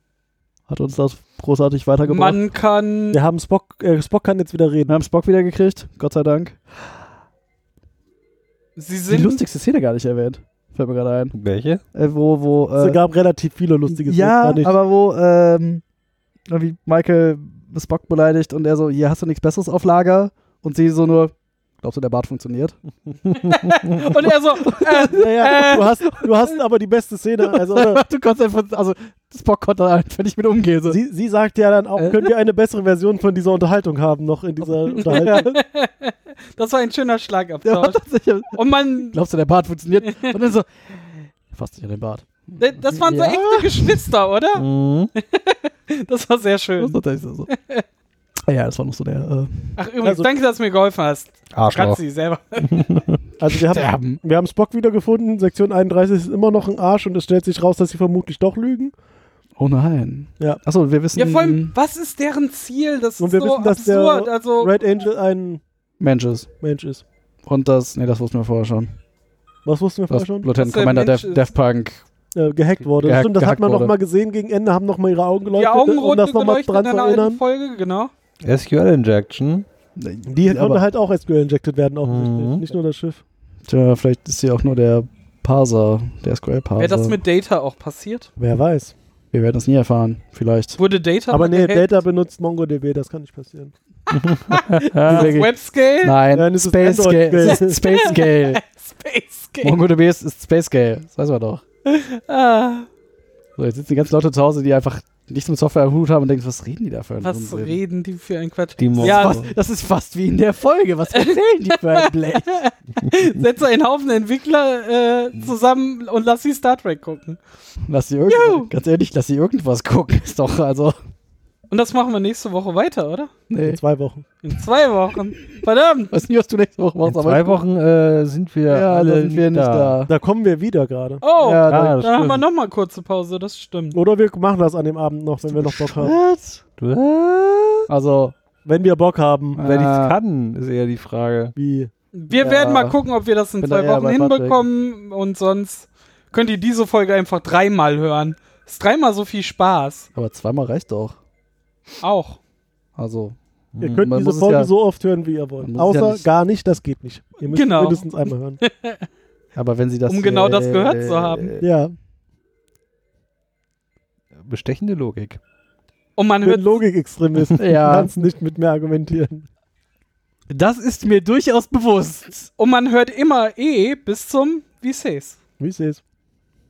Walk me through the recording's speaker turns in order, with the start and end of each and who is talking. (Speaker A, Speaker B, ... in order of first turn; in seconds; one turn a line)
Speaker A: 0.7-2.4
Speaker B: 2.0-3.2
Speaker C: 3.1-4.9
Speaker A: 4.9-6.6
Speaker B: 8.8-9.4
Speaker A: 9.1-11.3
Speaker D: 11.3-11.8
Speaker A: 11.9-13.0
Speaker C: 12.8-14.7
Speaker A: 13.9-15.8
Speaker A: 16.5-22.8
Speaker B: 23.3-25.8
Speaker A: 24.6-26.3
Speaker C: 25.0-28.1
Speaker A: 27.5-31.0
Speaker C: 30.9-35.6
Speaker A: 31.9-32.3
Speaker A: 34.6-35.4
Speaker B: 35.0-38.0
Speaker A: 37.6-44.1
Speaker B: 38.5-39.2
Speaker B: 40.0-40.3
Speaker B: 42.6-47.8
Speaker D: 44.5-45.1
Speaker A: 46.8-47.5
Speaker A: 48.5-49.8
Speaker B: 49.8-52.8
Speaker C: 50.0-50.3
Speaker D: 51.5-52.0
Speaker D: 52.6-53.2
Speaker C: 53.4-58.9
Speaker A: 53.7-54.2
Speaker A: 59.6-61.7
Speaker B: 61.1-64.7
Speaker C: 63.2-65.6
Speaker A: 66.0-66.5
Speaker C: 66.6-67.0
Speaker A: 67.5-69.0
Speaker C: 69.6-70.5
Speaker A: 70.1-72.0
Speaker B: 70.5-71.5
Speaker C: 72.3-77.4
Speaker A: 73.0-73.9
Speaker B: 75.5-78.1
Speaker D: 78.4-79.7
Speaker A: 80.0-80.8
Speaker C: 80.3-83.2
Speaker D: 82.0-82.6
Speaker A: 83.7-87.2
Speaker B: 86.8-88.3
Speaker C: 88.4-88.9
Speaker A: 89.3-90.8
Speaker B: 90.8-92.0
Speaker C: 91.3-93.7
Speaker D: 94.1-95.3
Speaker B: 94.1-96.2
Speaker A: 95.0-98.6
Speaker C: 96.3-97.8
Speaker B: 97.4-99.8
Speaker A: 99.6-101.6
Speaker B: 101.8-102.9
Speaker A: 103.6-107.8
Speaker B: 107.2-109.5
Speaker D: 108.8-109.5
Speaker A: 109.0-112.6
Speaker B: 111.9-117.4
Speaker A: 117.9-121.0
Speaker B: 118.3-118.7
Speaker B: 121.7-123.3
Speaker A: 123.5-123.8
Speaker C: 123.6-124.2
Speaker B: 124.4-126.1
Speaker A: 126.1-127.6
Speaker D: 127.0-130.0
Speaker A: 128.7-130.1
Speaker C: 130.1-131.2
Speaker B: 131.2-134.0
Speaker A: 131.4-132.0
Speaker D: 131.7-132.4
Speaker C: 133.9-136.1
Speaker A: 135.6-136.6
Speaker D: 136.8-137.8
Speaker A: 137.9-138.3
Speaker C: 138.6-139.6
Speaker A: 139.6-140.2
Speaker D: 139.6-141.5
Speaker C: 141.6-141.9
Speaker B: 142.1-150.1
Speaker A: 142.3-143.0
Speaker A: 143.6-144.7
Speaker A: 150.1-151.2
Speaker B: 152.0-152.4
Speaker A: 153.0-153.4
Speaker D: 153.7-154.1
Speaker C: 153.8-158.6
Speaker A: 153.9-154.7
Speaker A: 155.6-156.2
Speaker B: 157.4-158.1
Speaker B: 158.6-159.1
Speaker A: 159.5-161.7
Speaker B: 160.1-161.5
Speaker C: 161.6-161.9
Speaker D: 164.4-165.4
Speaker B: 166.2-166.8
Speaker C: 166.4-169.4
Speaker A: 167.6-168.1
Speaker A: 170.5-172.5
Speaker B: 172.6-175.4
Speaker C: 175.6-176.0